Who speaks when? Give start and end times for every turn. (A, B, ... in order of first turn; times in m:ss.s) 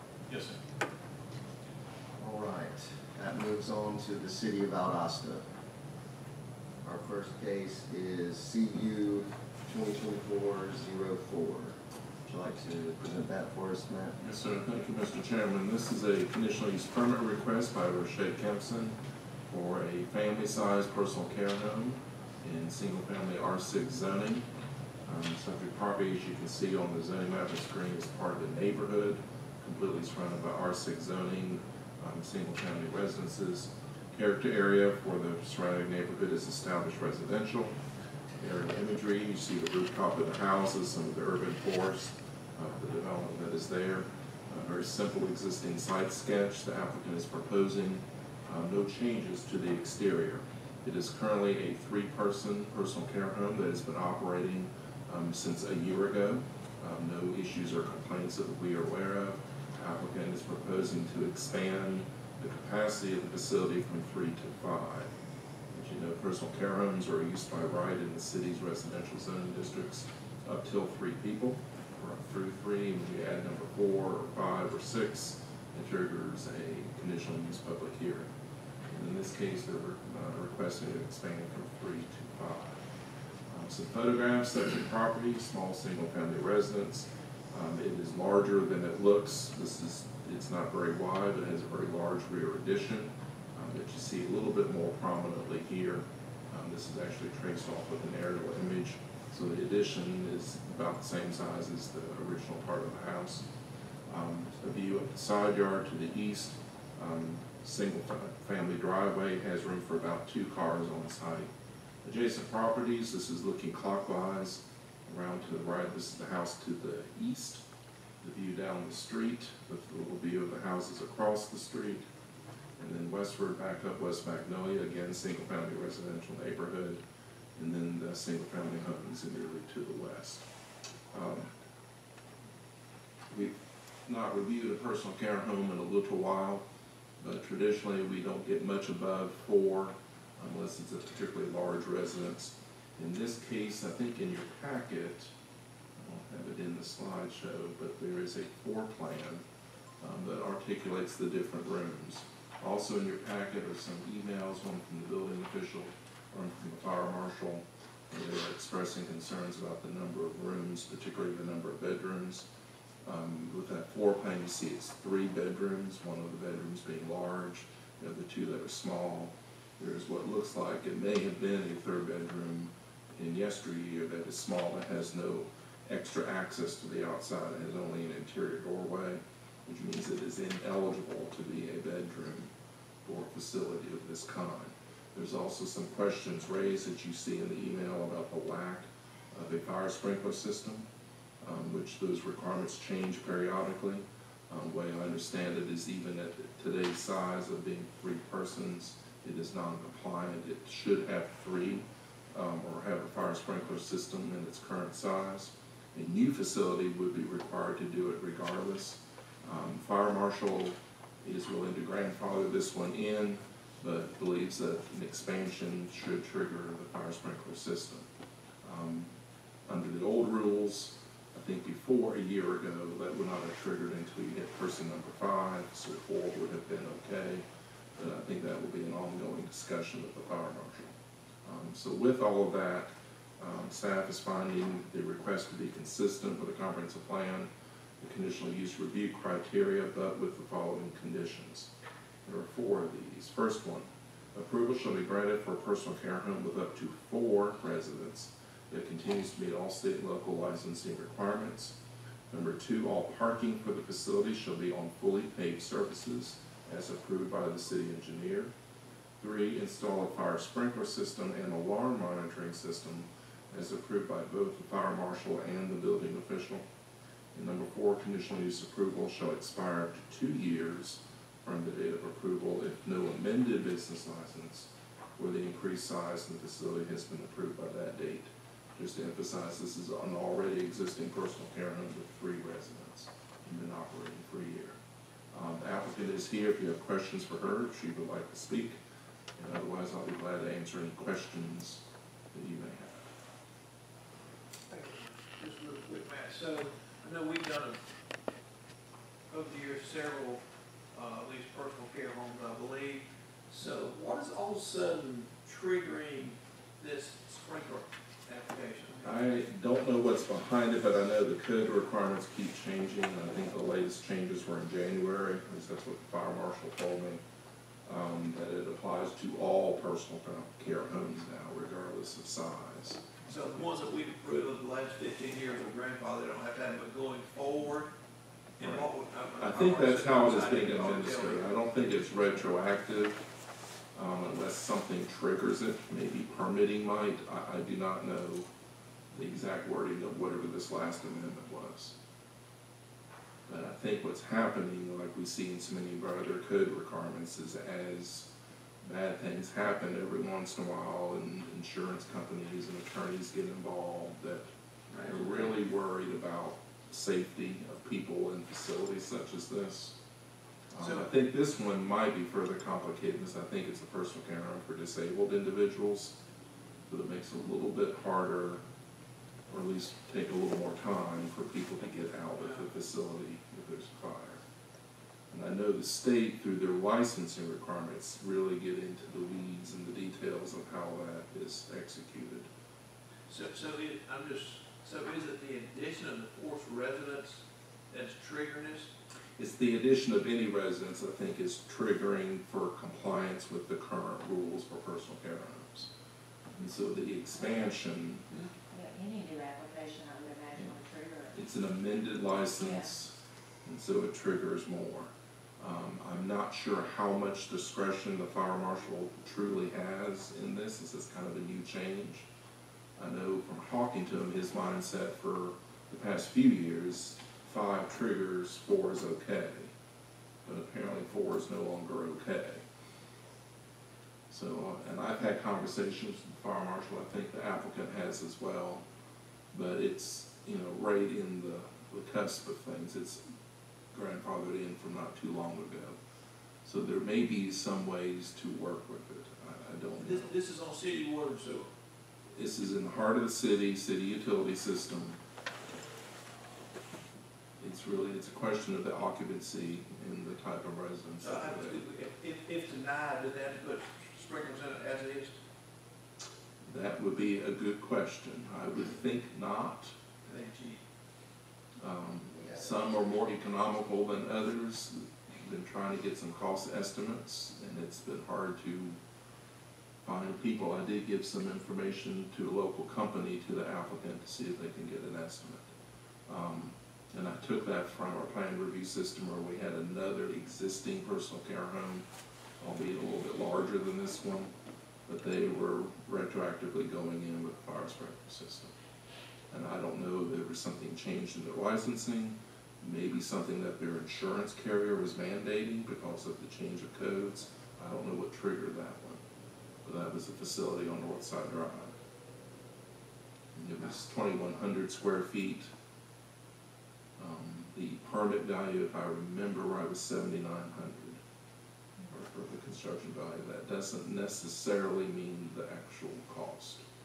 0:00.3-0:00.5 A
0:02.2-0:05.5 B
0:06.8-0:14.2 B
0:14.2-0:19.0 C
0:19.5-0:24.5 C
0:25.0-0:37.8 C
0:38.4-1:05.1 C
1:05.7-1:18.3 C
1:18.9-1:22.8 C
1:23.5-1:43.5 C
1:44.1-1:51.5 C
1:52.0-1:57.6 C
1:58.2-2:02.0 C
2:02.8-2:07.0 C
2:07.6-2:10.4 C
2:11.1-2:11.5 C
2:13.3-2:13.5 C
2:14.0-2:16.6 C
2:17.2-2:25.3 C
2:26.0-2:29.4 C
2:30.0-2:42.5 C
2:43.0-3:02.5 C
3:03.0-3:10.8 C
3:11.4-3:38.1 C
3:38.6-3:39.1 C
3:39.7-3:47.4 C
3:48.0-3:50.9 C
3:51.4-3:57.5 C
3:58.0-4:01.7 C
4:02.2-4:11.8 C
4:12.3-4:18.5 C
4:19.2-4:26.7 C
4:27.4-4:44.8 C
4:45.3-4:48.8 C
4:49.4-4:53.1 C
4:54.7-4:57.8 A
4:59.3-5:09.2 A
5:09.0-5:17.2 C
5:17.9-5:23.1 C
5:23.2-5:27.9 A
5:28.6-5:31.6 A
5:28.6-5:28.9 C
5:29.4-5:33.2 C
5:33.9-5:38.5 C
5:39.1-5:42.0 C
5:43.5-5:48.3 C
5:48.8-5:54.5 C
5:54.9-5:55.6 A
5:55.0-6:00.0 C
6:00.7-6:06.2 C
6:00.8-6:01.1 A
6:06.9-6:08.6 C
6:09.5-6:14.4 C
6:12.4-6:12.7 A
6:15.3-6:22.5 C
6:23.3-6:28.9 A
6:29.4-6:35.9 C
6:36.6-6:38.2 C
6:37.4-6:37.7 D
6:38.7-6:41.4 D
6:41.3-6:52.3 C
6:42.6-6:42.9 D
6:53.0-6:59.7 C
7:00.4-7:02.6 C
7:04.3-7:08.8 C
7:09.5-7:13.2 C
7:13.9-7:16.0 C
7:16.6-7:20.3 C
7:20.0-7:21.7 A
7:22.4-7:25.2 C
7:27.6-7:31.8 C
7:31.2-7:35.4 A
7:36.7-7:39.9 C
7:40.2-7:40.8 A
7:41.8-7:49.0 C
7:42.2-7:43.3 B
7:50.0-7:55.7 C
7:56.3-8:02.1 C
8:02.6-8:04.5 C
8:05.1-8:08.7 C
8:09.5-8:19.2 C
8:19.8-8:21.9 C
8:23.6-8:25.7 C
8:27.2-8:31.2 C
8:32.1-8:36.8 C